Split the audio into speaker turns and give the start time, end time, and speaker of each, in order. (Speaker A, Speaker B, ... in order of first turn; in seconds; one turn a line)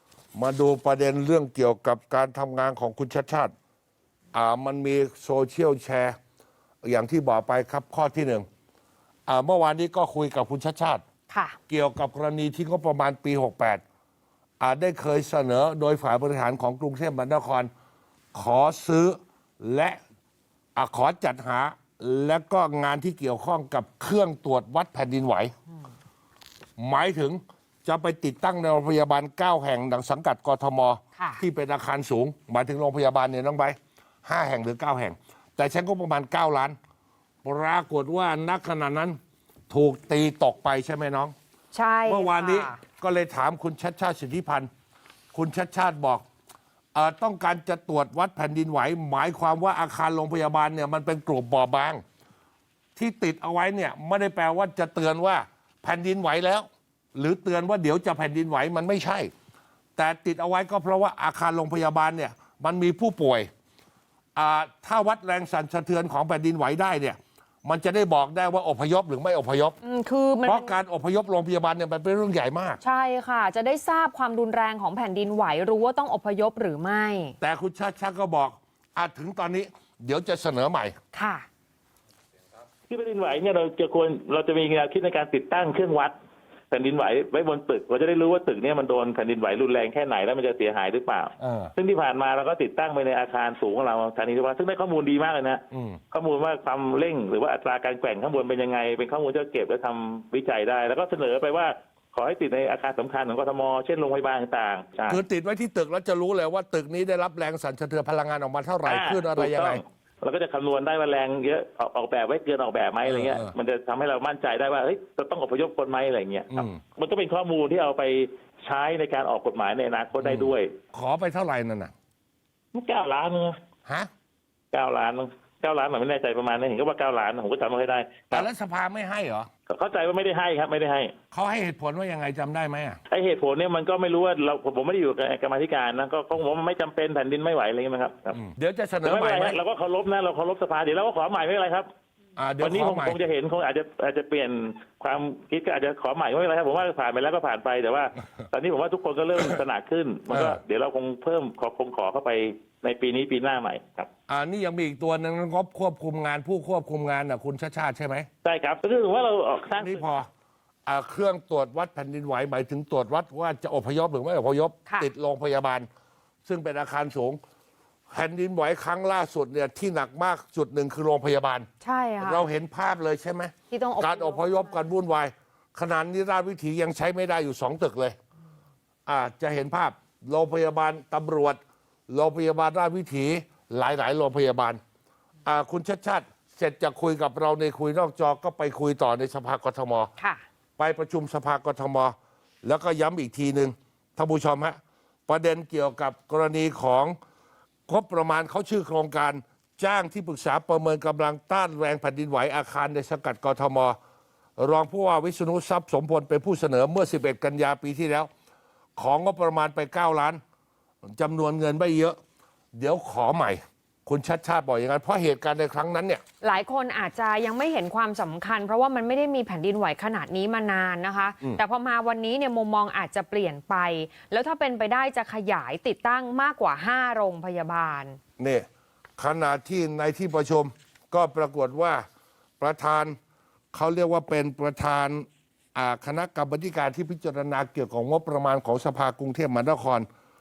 Speaker A: 0.3-3.5
Speaker A: 4.3-6.2
Speaker A: 6.8-8.5
Speaker A: 9.3-11.0
Speaker B: 11.3-11.6
Speaker A: 11.7-13.8
Speaker A: 14.6-17.7
Speaker A: 18.3-20.0
Speaker A: 20.8-25.5
Speaker A: 26.8-36.8
Speaker B: 31.1-31.4
Speaker A: 37.4-39.2
Speaker A: 39.7-41.3
Speaker B: 41.7-42.8
Speaker A: 42.0-44.7
Speaker A: 45.3-46.2
Speaker A: 47.0-52.0
Speaker A: 53.0-59.3
Speaker A: 60.0-63.5
Speaker A: 64.3-69.8
Speaker B: 69.8-70.8
Speaker A: 70.4-72.8
Speaker B: 72.8-77.4
Speaker A: 77.4-81.0
Speaker B: 81.1-81.5
Speaker C: 82.9-86.1
Speaker C: 86.7-105.2
Speaker A: 91.4-91.7
Speaker A: 95.7-96.0
Speaker A: 105.1-109.8
Speaker C: 108.8-120.7
Speaker A: 113.0-113.5
Speaker A: 116.5-116.8
Speaker A: 120.2-121.9
Speaker C: 122.7-123.6
Speaker C: 124.7-128.5
Speaker A: 128.3-129.5
Speaker C: 129.7-131.1
Speaker A: 131.3-133.0
Speaker C: 133.1-138.4
Speaker A: 138.3-139.6
Speaker C: 139.0-141.9
Speaker A: 142.4-143.2
Speaker C: 142.6-154.1
Speaker A: 150.3-150.6
Speaker A: 154.3-158.3
Speaker C: 158.4-160.1
Speaker A: 159.8-160.3
Speaker A: 160.9-165.9
Speaker A: 166.4-167.4
Speaker A: 168.1-171.7
Speaker B: 171.8-172.5
Speaker A: 172.2-178.2
Speaker B: 173.7-174.8
Speaker A: 179.1-184.8
Speaker A: 185.4-190.1
Speaker B: 190.2-190.4
Speaker A: 190.8-197.2
Speaker A: 197.9-204.0
Speaker A: 204.6-208.3
Speaker A: 209.0-210.4
Speaker A: 211.1-212.2
Speaker A: 212.7-216.2
Speaker B: 216.4-228.2
Speaker A: 228.4-228.7
Speaker A: 229.2-232.1
Speaker A: 232.6-233.2
Speaker A: 233.7-240.1